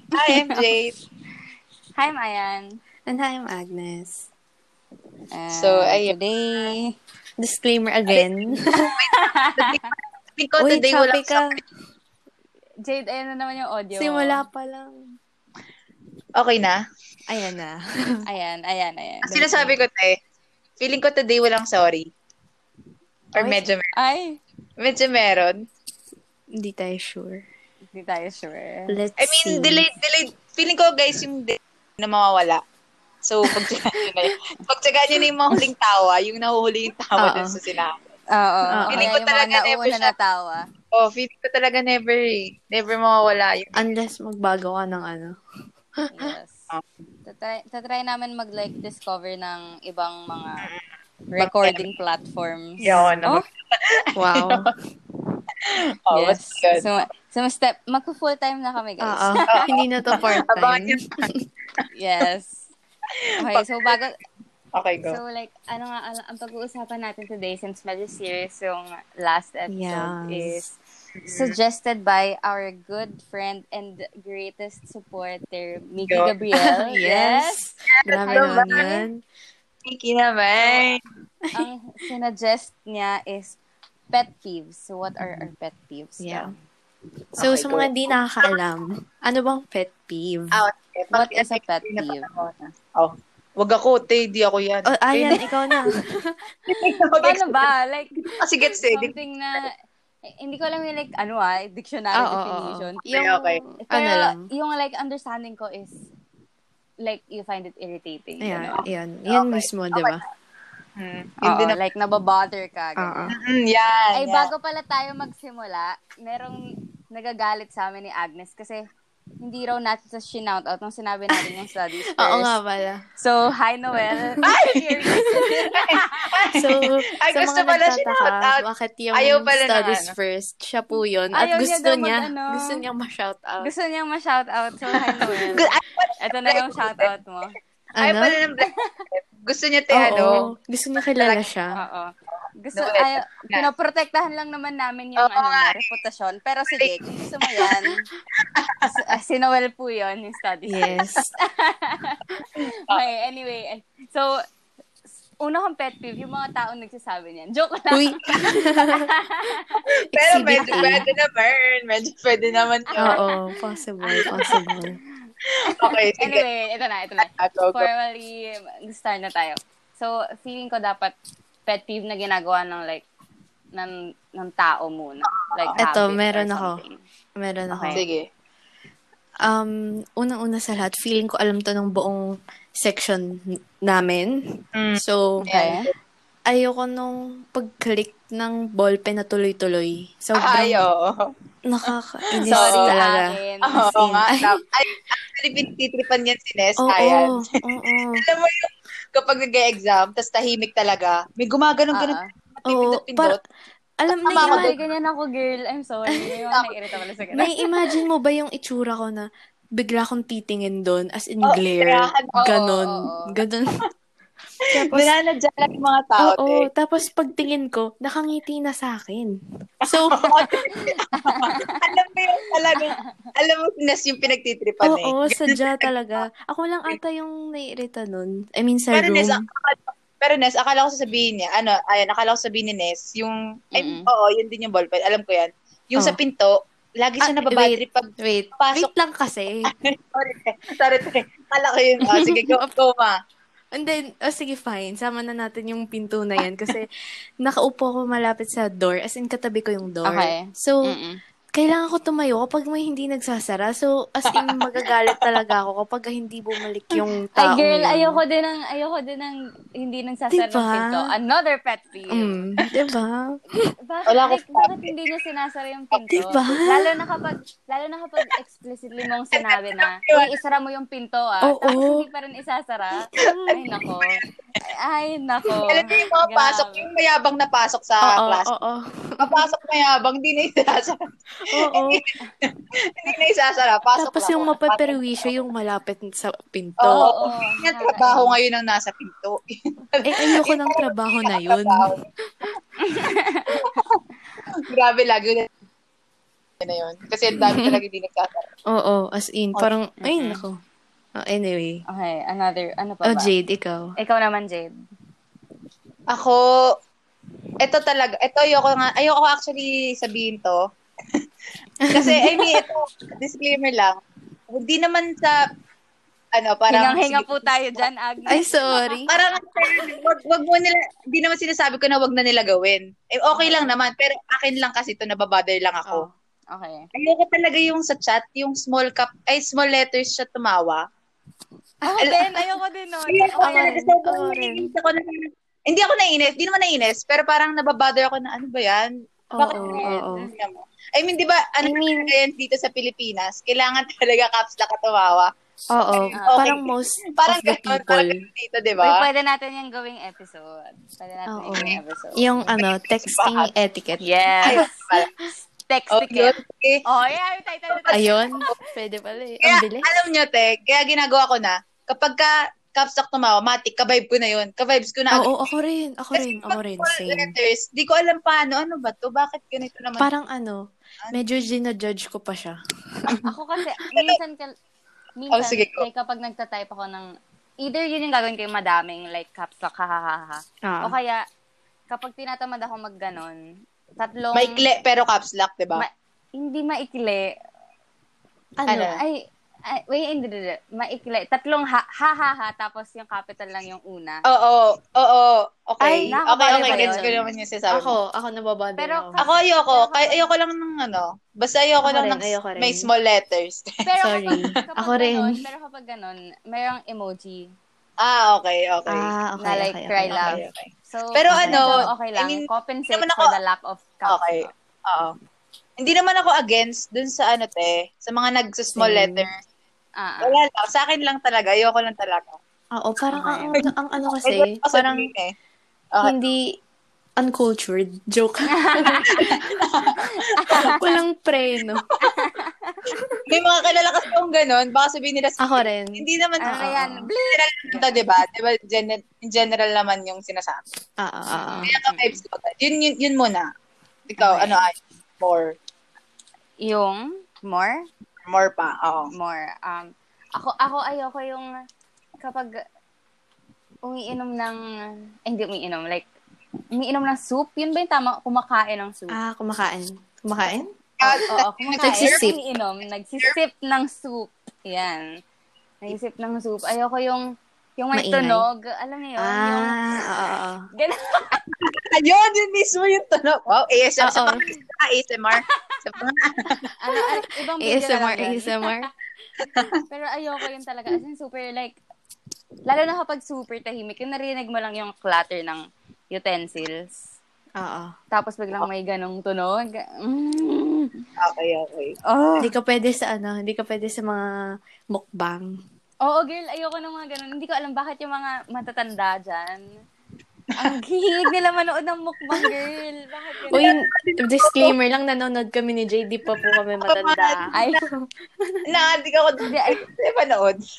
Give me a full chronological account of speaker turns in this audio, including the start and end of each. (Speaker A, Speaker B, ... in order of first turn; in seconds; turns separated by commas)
Speaker A: 0.1-0.9, Speaker B: 0.2-0.6, Speaker B: 1.9-2.8, Speaker C: 3.1-4.3, Speaker B: 5.3-6.9, Speaker A: 5.5-6.1, Speaker C: 7.4-8.9, Speaker B: 8.7-9.8, Speaker A: 8.9-11.4, Speaker C: 10.6-11.5, Speaker B: 12.8-14.4, Speaker C: 13.9-15.1, Speaker A: 16.4-16.8, Speaker C: 17.3-17.8, Speaker B: 18.3-19.5, Speaker A: 19.3-20.2, Speaker C: 19.3-19.8, Speaker A: 20.8-22.1, Speaker A: 23.3-23.9, Speaker B: 23.9-24.4, Speaker A: 24.8-25.6, Speaker C: 26.6-27.4, Speaker B: 27.9-28.9, Speaker C: 28.9-29.9, Speaker A: 29.2-32.6, Speaker A: 33.2-38.0, Speaker C: 33.5-34.3, Speaker C: 35.2-35.6, Speaker C: 37.2-37.6, Speaker B: 38.3-40.6, Speaker C: 38.7-39.1, Speaker A: 38.9-40.1, Speaker A: 40.9-43.8, Speaker C: 43.7-45.4, Speaker C: 46.0-46.3, Speaker B: 46.1-46.7, Speaker B: 47.2-50.7, Speaker B: 51.3-53.4, Speaker A: 51.4-51.8, Speaker C: 52.8-53.3, Speaker A: 52.8-54.7, Speaker C: 54.1-54.7, Speaker A: 55.6-56.9, Speaker B: 56.1-59.6, Speaker C: 59.0-61.5, Speaker A: 59.5-61.1, Speaker B: 61.9-62.7, Speaker A: 63.1-64.0, Speaker B: 63.4-64.2, Speaker A: 64.7-65.2, Speaker B: 65.0-77.7, Speaker C: 69.7-70.6, Speaker A: 71.2-71.5, Speaker A: 76.0-76.3, Speaker C: 76.7-79.2, Speaker A: 78.1-78.9, Speaker B: 78.2-78.9, Speaker A: 79.8-81.0, Speaker B: 81.5-83.6, Speaker B: 84.1-86.5, Speaker C: 86.2-86.5, Speaker A: 87.3-88.5, Speaker C: 87.4-90.6, Speaker A: 90.5-95.4, Speaker B: 91.1-92.3, Speaker C: 94.9-96.4, Speaker B: 95.3-96.0, Speaker B: 96.7-99.7, Speaker A: 96.7-99.1, Speaker B: 100.3-103.0, Speaker C: 102.2-104.5, Speaker A: 103.1-103.6, Speaker B: 103.8-106.0, Speaker B: 107.0-108.8, Speaker C: 108.4-110.2, Speaker A: 109.3-110.2, Speaker A: 111.0-111.8, Speaker B: 111.4-113.2, Speaker C: 113.0-113.3, Speaker A: 113.3-114.5, Speaker B: 114.1-116.6, Speaker B: 117.1-118.8, Speaker B: 119.4-122.5, Speaker C: 121.3-121.6, Speaker C: 122.2-123.0, Speaker B: 123.2-126.4, Speaker C: 124.1-124.5, Speaker A: 124.4-128.6, Speaker C: 126.5-133.7, Speaker A: 129.1-130.1, Speaker B: 131.3-132.8, Speaker B: 133.6-135.7, Speaker C: 135.2-135.6, Speaker A: 135.5-137.1, Speaker B: 136.2-137.5, Speaker C: 138.0-138.4, Speaker A: 138.0-140.4, Speaker B: 138.6-138.9, Speaker C: 139.9-141.8, Speaker A: 141.2-141.4, Speaker B: 141.8-148.0, Speaker A: 142.3-143.7, Speaker A: 145.2-145.8, Speaker A: 146.7-147.8, Speaker A: 148.4-148.9, Speaker B: 148.8-154.4, Speaker C: 150.7-151.3, Speaker A: 152.7-153.0, Speaker B: 155.4-159.8, Speaker C: 157.9-159.1, Speaker A: 158.3-158.6, Speaker C: 160.1-161.0, Speaker A: 160.1-163.2, Speaker B: 160.7-161.1, Speaker C: 163.0-165.0, Speaker B: 163.0-163.4, Speaker B: 164.0-164.8, Speaker A: 164.2-164.7, Speaker A: 165.6-166.4, Speaker B: 165.8-171.1, Speaker A: 167.2-167.9, Speaker B: 171.7-173.0, Speaker B: 173.7-177.0, Speaker A: 175.3-175.8, Speaker C: 175.8-176.8, Speaker C: 177.4-178.0, Speaker B: 177.7-178.0, Speaker A: 177.9-178.2, Speaker C: 179.4-184.3, Speaker A: 184.8-185.8, Speaker C: 185.0-185.4, Speaker B: 185.4-185.9, Speaker C: 186.5-190.8, Speaker A: 190.4-191.2, Speaker C: 191.6-194.6, Speaker A: 192.4-192.9, Speaker B: 192.5-193.9, Speaker A: 193.7-203.4, Speaker C: 196.8-198.2, Speaker B: 201.9-202.2, Speaker C: 202.7-203.4, Speaker C: 204.0-204.7, Speaker A: 204.2-204.8, Speaker B: 204.3-207.5, Speaker C: 206.1-206.4, Speaker C: 207.3-209.2, Speaker C: 209.8-213.8, Speaker A: 211.4-212.3, Speaker B: 212.4-213.4, Speaker C: 214.7-215.1, Speaker A: 214.8-216.7, Speaker C: 216.2-219.3, Speaker C: 219.8-220.3, Speaker A: 219.8-226.2, Speaker B: 220.5-221.8, Speaker B: 222.7-223.0, Speaker C: 224.8-229.4, Speaker A: 228.9-238.9, Speaker B: 233.7-234.1, Speaker C: 237.2-239.7, Speaker A: 239.7-243.2, Speaker B: 242.1-242.3, Speaker C: 242.4-242.7, Speaker C: 243.7-246.9, Speaker C: 247.4-251.0, Speaker B: 250.0-251.2, Speaker C: 251.5-258.2, Speaker A: 254.3-255.3, Speaker B: 257.4-262.5, Speaker C: 260.3-261.1, Speaker C: 262.1-263.4, Speaker B: 263.6-276.9, Speaker A: 264.1-264.9, Speaker C: 266.1-266.9, Speaker A: 269.3-270.3, Speaker C: 271.4-272.1, Speaker C: 273.1-273.6, Speaker A: 273.2-273.6, Speaker A: 275.6-278.5, Speaker C: 278.0-279.4, Speaker A: 279.2-285.3, Speaker C: 281.4-282.0, Speaker C: 284.0-287.2, Speaker A: 286.8-292.0, Speaker B: 286.9-288.4, Speaker C: 290.0-292.5, Speaker B: 292.8-293.7, Speaker A: 293.5-294.0, Speaker A: 294.6-295.5, Speaker A: 296.6-298.5, Speaker C: 297.4-297.8, Speaker C: 298.7-300.6, Speaker B: 300.1-300.4, Speaker C: 301.2-301.8, Speaker B: 301.9-303.3, Speaker C: 303.0-303.9, Speaker B: 304.0-304.7, Speaker A: 306.1-306.4, Speaker A: 307.6-310.6, Speaker C: 311.8-312.6, Speaker A: 311.9-314.0, Speaker A: 314.5-315.4, Speaker A: 316.3-317.8, Speaker B: 316.7-319.0, Speaker C: 318.3-319.1, Speaker A: 319.1-326.1, Speaker B: 319.5-319.9, Speaker B: 323.3-323.7, Speaker C: 325.8-326.1, Speaker B: 326.5-326.9, Speaker A: 326.9-330.8, Speaker B: 331.8-333.8, Speaker A: 332.0-332.4, Speaker A: 333.1-345.3, Speaker C: 333.4-334.6, Speaker C: 339.3-340.3, Speaker B: 339.4-340.2, Speaker C: 341.6-342.1, Speaker C: 345.7-348.2, Speaker A: 345.9-349.0, Speaker B: 346.1-346.5, Speaker B: 348.8-352.2, Speaker C: 351.3-354.6, Speaker A: 352.4-353.5, Speaker B: 354.0-355.0, Speaker A: 354.4-355.1, Speaker B: 355.6-356.3, Speaker A: 355.9-356.8, Speaker B: 356.9-358.5, Speaker A: 357.8-358.0, Speaker C: 357.9-359.9, Speaker A: 359.4-365.3, Speaker C: 365.1-367.3, Speaker A: 366.1-370.1, Speaker C: 370.0-373.3, Speaker B: 373.1-374.5, Speaker B: 375.2-377.1, Speaker A: 375.3-375.8, Speaker B: 377.6-381.2, Speaker C: 380.6-380.9, Speaker B: 381.9-383.4, Speaker B: 384.0-384.6, Speaker A: 384.3-385.8, Speaker B: 385.8-387.3, Speaker C: 388.6-389.0, Speaker A: 388.7-389.0, Speaker B: 388.9-394.2, Speaker A: 394.3-397.9, Speaker C: 395.8-399.2, Speaker B: 396.1-397.1, Speaker B: 398.8-400.3, Speaker A: 399.2-403.7, Speaker C: 401.8-402.9, Speaker B: 403.8-407.5, Speaker C: 404.0-405.4, Speaker A: 408.0-409.1, Speaker C: 408.9-410.4, Speaker B: 409.4-414.5, Speaker A: 410.2-413.3, Speaker C: 411.3-411.8, Speaker A: 414.1-415.1, Speaker A: 415.8-419.4, Speaker C: 418.8-419.3, Speaker B: 420.0-420.4, Speaker A: 420.2-422.4, Speaker C: 422.7-425.1, Speaker B: 423.1-423.6, Speaker A: 424.2-425.3, Speaker C: 426.0-426.4, Speaker C: 427.2-429.6, Speaker B: 428.5-429.4, Speaker A: 429.1-430.7, Speaker B: 430.0-430.8, Speaker C: 430.5-431.8, Speaker B: 432.0-433.1, Speaker A: 433.2-440.6, Speaker C: 435.4-437.1, Speaker B: 436.4-438.0, Speaker C: 441.0-441.7, Speaker B: 441.3-442.2, Speaker A: 441.6-443.5, Speaker A: 444.1-445.5, Speaker C: 444.2-444.5, Speaker B: 446.6-447.8, Speaker A: 448.3-449.1, Speaker B: 449.1-451.5, Speaker B: 452.2-452.6, Speaker B: 453.8-454.6, Speaker B: 455.2-456.1, Speaker B: 456.7-459.2, Speaker C: 459.1-461.2, Speaker A: 461.0-462.3, Speaker B: 461.3-465.1, Speaker C: 461.8-462.4, Speaker B: 465.8-467.2, Speaker B: 467.8-469.8, Speaker C: 467.9-468.4, Speaker C: 469.2-470.6, Speaker B: 470.8-471.4, Speaker A: 471.6-476.7, Speaker C: 474.0-474.4, Speaker B: 476.8-478.8, Speaker C: 477.6-478.9, Speaker A: 479.4-479.7, Speaker B: 479.9-481.8, Speaker B: 482.6-487.0, Speaker C: 487.6-487.9, Speaker B: 488.1-490.9, Speaker A: 491.2-491.9, Speaker B: 492.1-492.5, Speaker C: 492.4-494.2, Speaker C: 494.9-495.5, Speaker B: 496.0-499.6, Speaker B: 500.6-503.6, Speaker A: 503.5-504.7, Speaker C: 503.5-508.6, Speaker A: 506.4-507.8, Speaker B: 507.5-507.8, Speaker A: 508.7-510.6, Speaker B: 509.4-509.8